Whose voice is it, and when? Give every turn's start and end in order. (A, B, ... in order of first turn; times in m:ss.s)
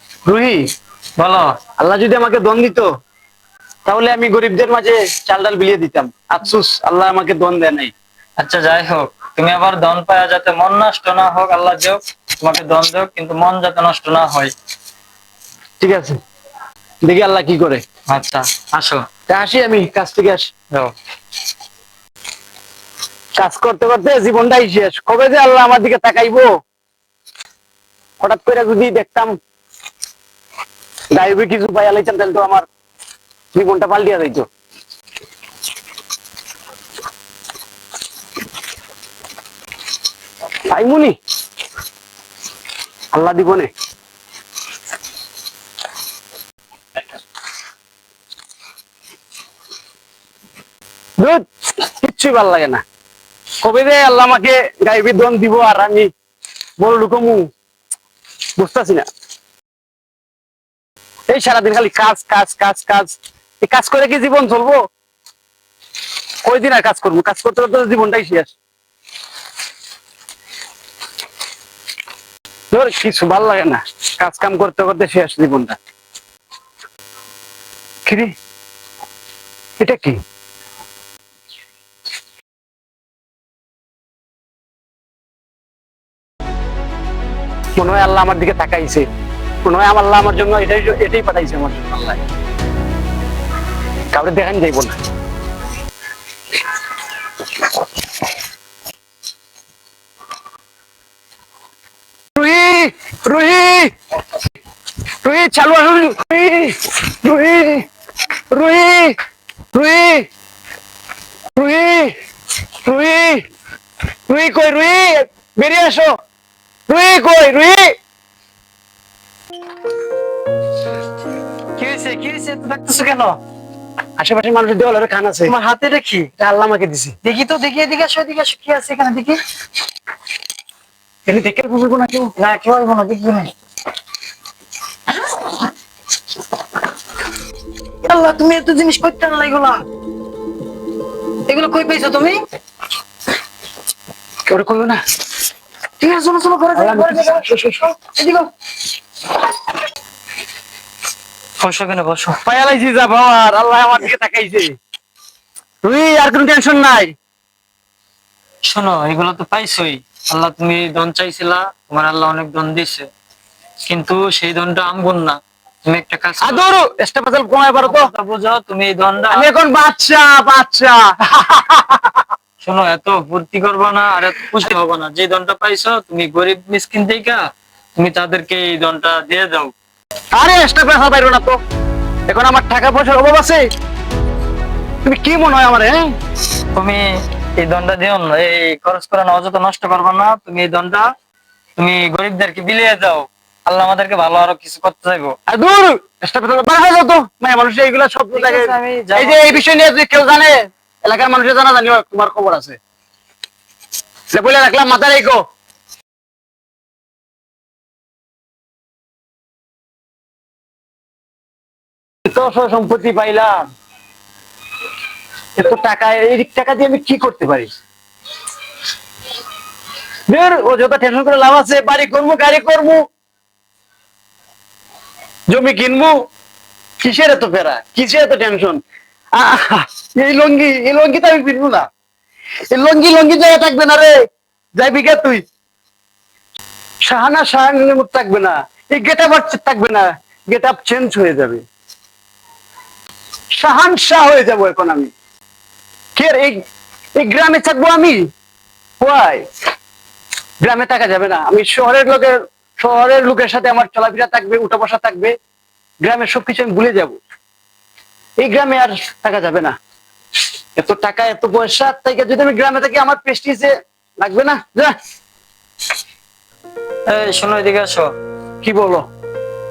0:00.2-0:00.6 A
0:01.2-0:01.6 B
0:01.8-0:02.9 A
0:03.8-0:07.9 A
0:08.4-0:14.5 B
0:15.8-0:16.2 A
0:17.0-0:17.8 A
0:18.1-0:19.0 B
0:19.3-0:20.5 A
0:23.4-0:26.5 A
0:28.2-0:29.3 A
0:31.1-0:32.6 A
0:33.5-0:34.5 A
0:40.7-0:41.1 A
0:43.1-0:43.7 A
0:51.2-0:52.8 A
0:53.6-0:56.1 A
0:56.8-0:57.4 A
0:58.6-0:59.1 A
1:01.3-1:04.8 A
1:06.4-1:08.5 A
1:12.7-1:15.8 A
1:18.0-1:18.3 A
1:19.8-1:20.2 A
1:27.8-1:29.1 A
1:29.6-1:32.2 A
1:34.1-1:35.0 A
1:42.3-1:43.9 A
1:45.2-1:47.8 A
1:48.5-1:49.2 A
1:49.7-1:50.3 A
1:51.5-1:52.1 A
1:52.8-1:53.4 A
1:54.3-1:56.1 A
1:56.9-1:57.9 A
2:01.8-2:03.4 B
2:04.2-2:05.5 A
2:05.5-2:06.3 B
2:06.4-2:07.1 A
2:07.2-2:09.4 B
2:11.2-2:12.3 A
2:12.4-2:13.5 B
2:18.0-2:19.8 B
2:21.4-2:22.4 B
2:24.5-2:25.0 A
2:26.0-2:28.5 B
2:26.7-2:27.8 A
2:31.6-2:32.4 B
2:32.4-2:34.7 A
2:35.8-2:37.1 A
2:38.6-2:43.1 B
2:43.9-2:46.6 B
2:46.4-2:48.1 A
2:47.8-2:49.5 B
2:49.3-2:52.2 A
2:52.6-2:57.4 B
2:58.0-2:59.7 B
3:00.3-3:01.6 A
3:02.3-3:03.6 A
3:05.0-3:06.1 A
3:06.7-3:07.0 B
3:07.6-3:11.1 B
3:11.8-3:15.3 B
3:15.5-3:22.8 A
3:18.3-3:19.6 B
3:24.3-3:25.4 A
3:32.2-3:33.7 A
3:35.6-3:37.7 A
3:40.3-3:43.0 A
3:45.5-3:46.1 A
3:47.0-3:48.8 A
3:49.3-3:51.8 A
3:52.7-3:54.1 A
3:54.8-3:55.4 A
3:57.0-4:01.6 A
4:03.5-4:05.1 A
4:06.1-4:06.6 A
4:07.2-4:08.2 A
4:09.0-4:09.4 A
4:10.6-4:15.3 A
4:16.0-4:17.2 A
4:18.4-4:19.7 A
4:20.8-4:24.9 A
4:27.0-4:28.1 B
4:28.6-4:29.0 A